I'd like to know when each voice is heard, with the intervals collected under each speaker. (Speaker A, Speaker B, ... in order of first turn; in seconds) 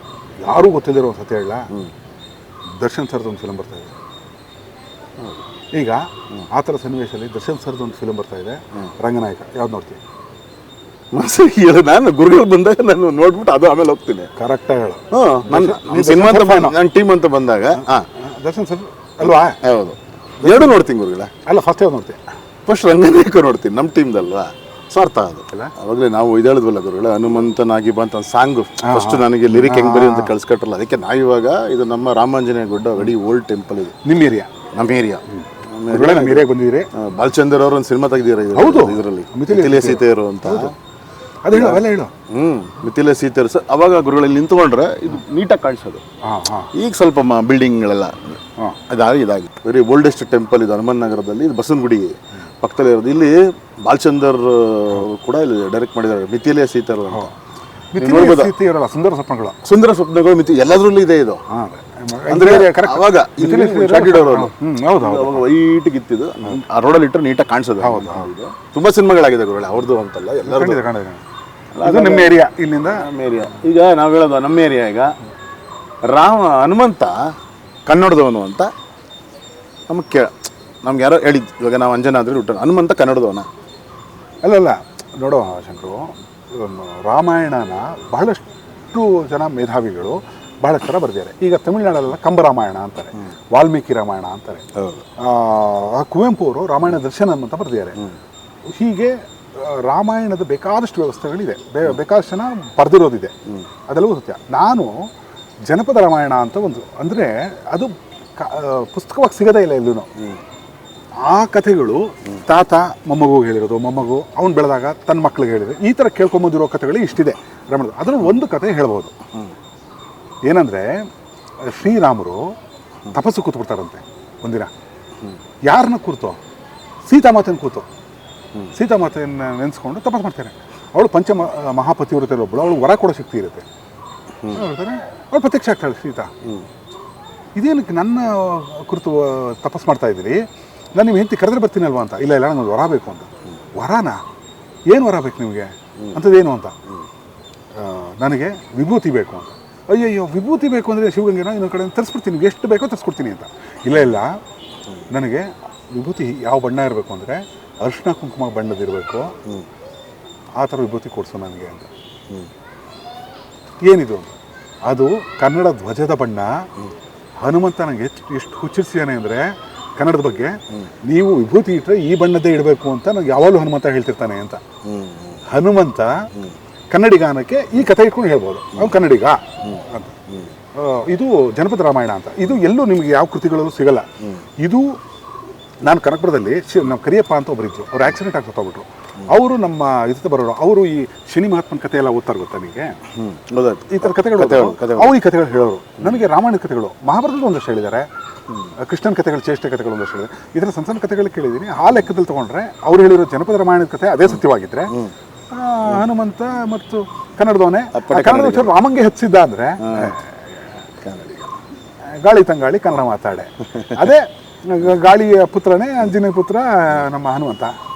Speaker A: 0.4-1.7, 2.8-3.9, 5.7-10.0, 14.4-16.8, 18.1-19.6, 20.4-20.8, 21.4-22.2, 28.8-30.3, 34.0-34.5, 35.3-36.9, 38.5-40.7, 41.4-42.1, 46.2-46.7, 57.9-59.6, 61.5-65.5, 67.8-68.3, 70.5-71.2, 71.8-73.1, 84.4-94.7, 95.2-98.0, 98.7-103.3, 103.9-105.0, 105.7-110.1, 111.2-119.1, 120.5-121.0, 121.7-122.4, 123.1-124.7, 125.7-126.4, 127.1-127.9, 128.7-133.7, 134.5-136.3, 137.6-140.4, 141.0-144.2, 144.9-146.8, 147.8-154.3, 155.1-159.3, 160.6-161.9, 163.8-164.3, 164.9-166.6, 167.4-174.6, 175.5-176.1, 176.9-180.2, 180.8-184.1, 184.6-185.0, 185.8-193.0, 193.9-198.1, 198.8-204.9, 205.5-210.4, 212.2-217.7
Speaker B: 11.1-14.3, 15.1-18.1, 19.3-21.3, 22.7-34.0, 34.7-40.7, 41.5-46.0, 46.7-57.3, 58.0-58.5, 59.6-61.4, 62.3-70.8, 71.7-75.1, 76.1-77.3, 77.9-78.7, 79.9-83.5, 94.8-95.0, 174.9-175.4, 179.6-180.5, 193.2-195.1, 207.9-208.8, 209.8-210.1, 211.0-211.5